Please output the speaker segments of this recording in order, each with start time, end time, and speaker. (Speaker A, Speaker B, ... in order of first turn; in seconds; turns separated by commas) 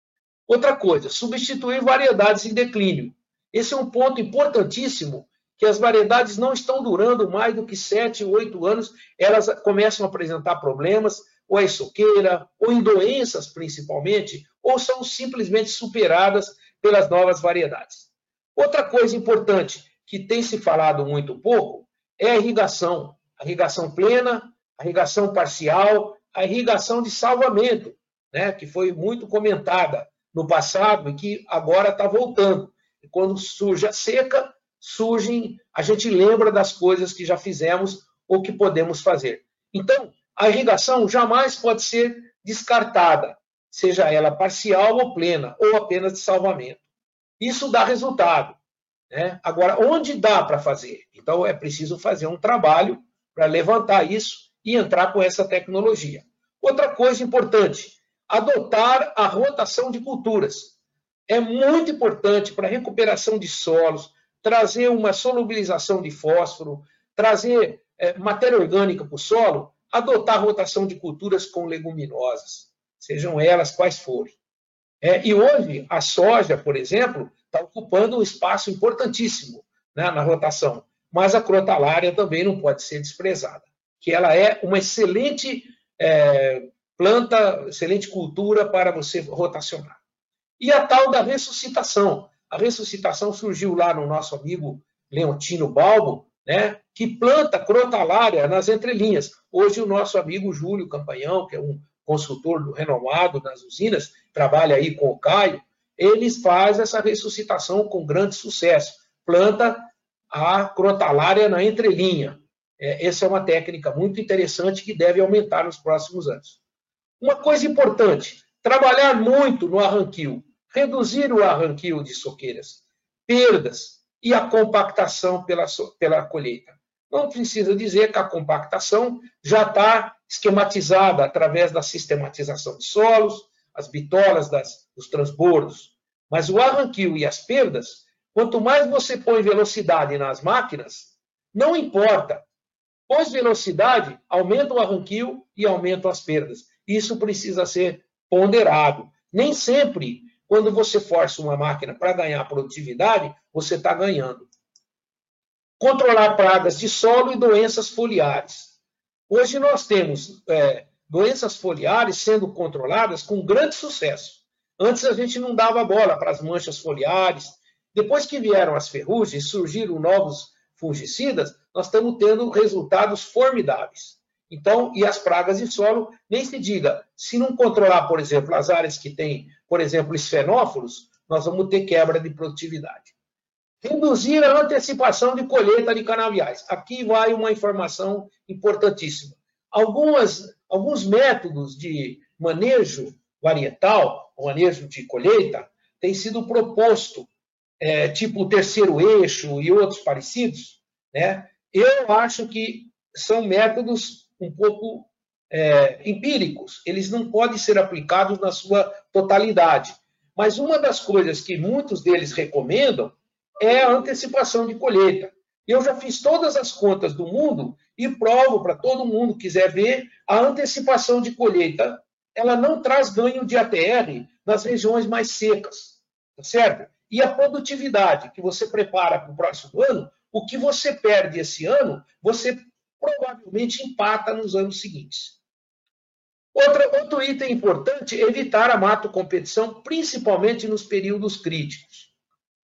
Speaker A: 0.5-46.8, Speaker A: 47.4-48.6, Speaker A: 49.1-60.7, Speaker A: 61.3-74.4, Speaker A: 75.0-90.0, Speaker A: 90.6-116.6, Speaker A: 117.2-142.4, Speaker A: 143.1-154.5, Speaker A: 155.8-158.7, Speaker A: 159.3-183.1, Speaker A: 183.8-197.3, Speaker A: 197.8-235.4, Speaker A: 236.5-242.1